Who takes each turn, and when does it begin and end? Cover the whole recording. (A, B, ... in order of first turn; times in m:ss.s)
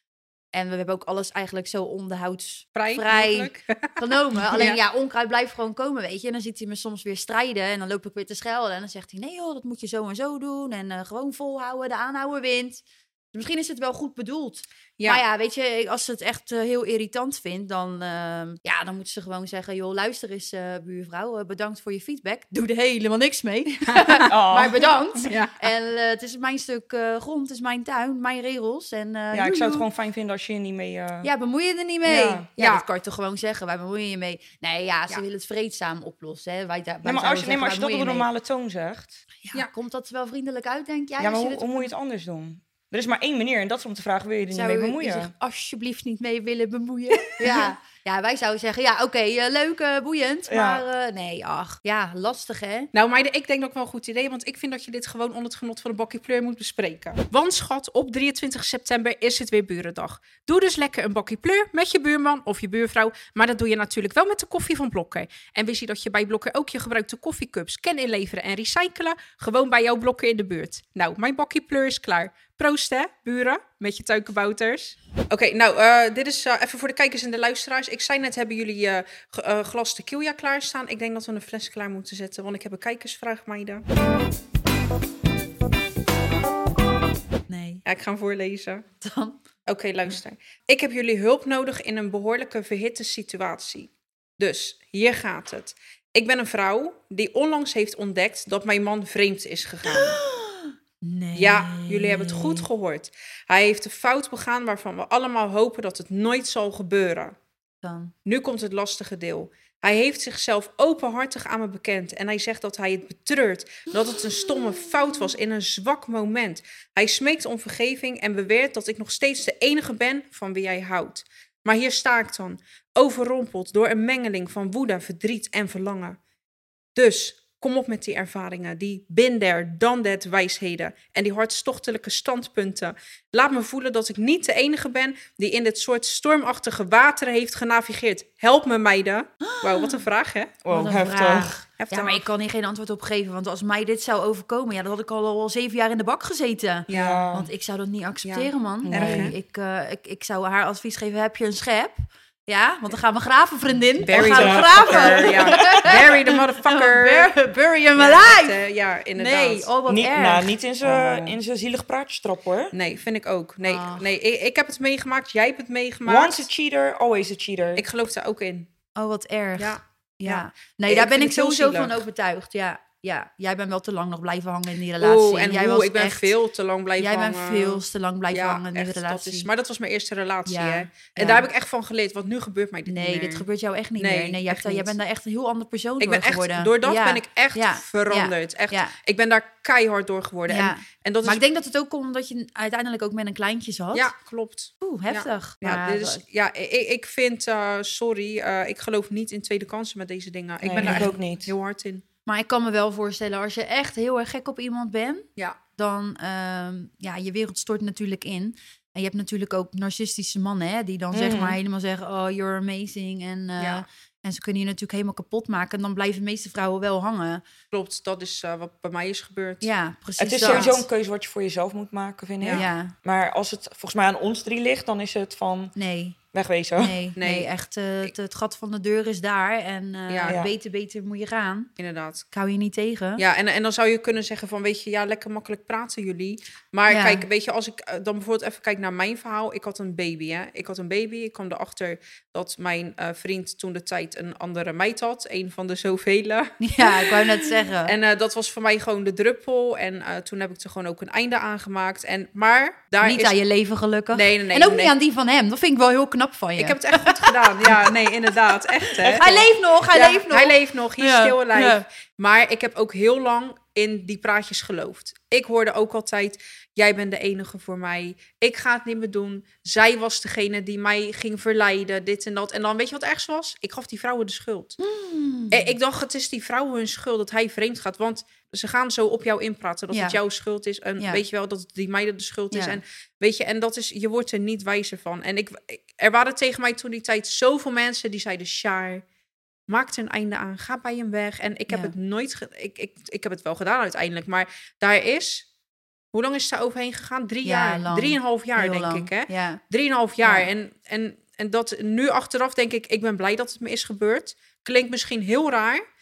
0:00.5-0:29.9 A
0:02.8-0:04.8 B
0:23.9-0:24.3 B
0:24.3-0:24.9 C
0:25.2-0:25.6 B
0:29.3-0:31.3 C
0:31.2-0:38.3 A
0:32.0-0:32.5 C
0:32.6-0:32.8 B
0:37.0-0:39.2 C
0:39.4-0:41.8 A
0:41.2-0:45.3 C
0:44.5-0:52.9 A
0:50.5-0:50.8 C
0:52.9-1:23.8 B
1:27.5-1:27.8 A
1:27.8-1:28.8 B
1:29.0-1:29.4 A
1:29.7-1:40.2 B
1:39.9-1:42.7 A
1:41.4-1:47.4 B
1:47.8-1:48.1 A
1:48.2-2:06.2 B
1:53.9-1:55.3 A
2:07.0-2:20.6 B
2:19.4-2:20.0 A
2:20.6-2:21.5 C
2:20.7-2:38.6 A
2:21.8-2:22.3 B
2:26.9-2:27.2 B
2:26.9-2:27.5 C
2:28.2-2:29.4 B
2:28.8-2:29.3 C
2:34.1-2:36.1 C
2:34.1-2:37.3 B
2:38.0-2:39.7 B
2:39.2-2:41.4 A
2:39.9-2:42.7 C
2:42.7-2:46.5 B
2:43.7-2:44.1 A
2:46.1-2:47.8 C
2:47.8-2:48.7 B
2:49.0-2:56.4 A
2:49.6-2:52.0 B
2:55.0-3:03.4 B
2:57.0-2:59.5 A
3:00.5-3:01.5 A
3:02.9-3:08.9 A
3:04.0-3:05.0 B
3:06.0-3:11.4 B
3:10.5-3:14.1 A
3:13.9-3:22.0 B
3:14.8-3:16.2 A
3:20.6-3:21.5 C
3:20.7-3:21.2 A
3:22.3-3:37.4 A
3:31.1-3:31.6 C
3:33.6-3:33.8 B
3:37.7-3:39.7 B
3:39.6-3:40.8 A
3:40.2-3:45.8 C
3:40.4-3:40.8 B
3:42.5-3:42.9 A
3:45.8-3:46.2 A
3:46.3-3:47.0 C
3:46.8-3:51.7 A
3:47.2-3:47.5 B
3:50.1-3:50.4 B
3:51.8-3:52.3 B
3:52.3-3:53.2 A
3:53.2-4:13.4 B
3:56.9-3:57.2 A
4:06.6-4:08.0 A
4:13.0-4:18.3 A
4:14.1-4:14.9 B
4:16.6-4:34.8 B
4:19.0-4:19.5 C
4:19.1-4:21.8 A
4:34.8-4:35.7 A
4:35.5-4:49.0 B
4:39.9-4:40.2 A
4:42.5-4:42.8 A
4:49.7-4:55.5 B
4:51.7-4:51.9 A
4:56.1-5:05.8 B
4:57.4-4:59.6 A
5:00.2-5:00.5 A